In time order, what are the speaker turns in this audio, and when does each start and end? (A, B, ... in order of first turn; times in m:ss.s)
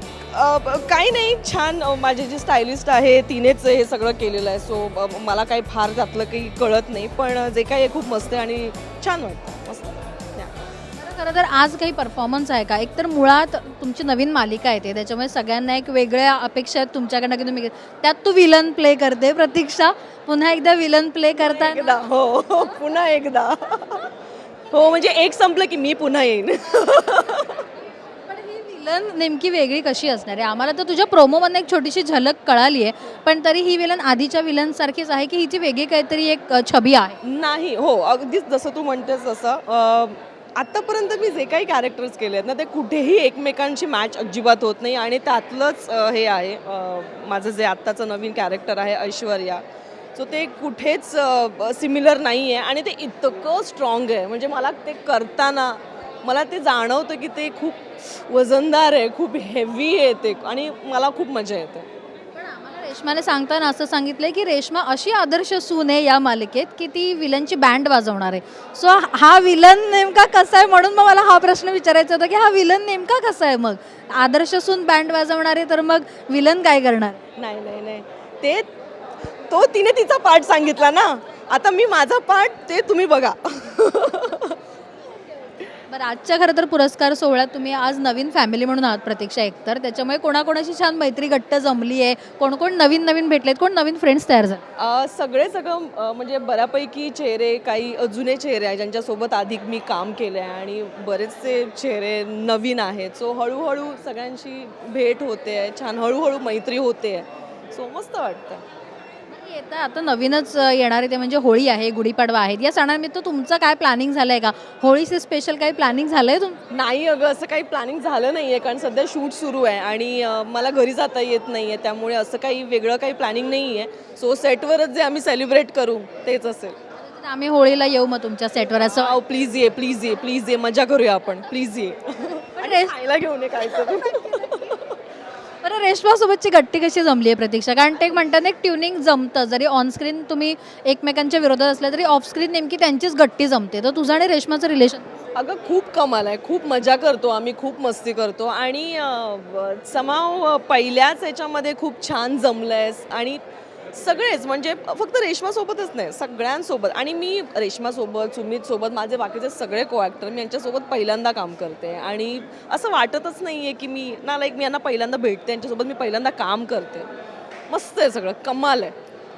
0:00.3-0:10.5 A
0:11.0-0:22.0 B
0:21.4-0:24.1 A
0:24.7-0:27.7 A
0:28.3-0:37.2 B
0:37.2-1:01.9 A
1:02.4-1:17.2 B
1:17.4-1:18.7 A
1:19.5-1:24.6 A
1:25.9-1:34.6 B
1:34.8-1:48.6 A
1:49.3-1:56.6 B
1:56.7-2:06.8 A
2:07.0-2:09.2 B
2:08.8-2:14.9 A
2:12.6-2:12.9 B
2:13.9-2:14.7 B
2:15.6-2:25.1 B
2:25.3-2:33.4 A
2:33.9-2:47.1 A
2:47.7-2:48.9 A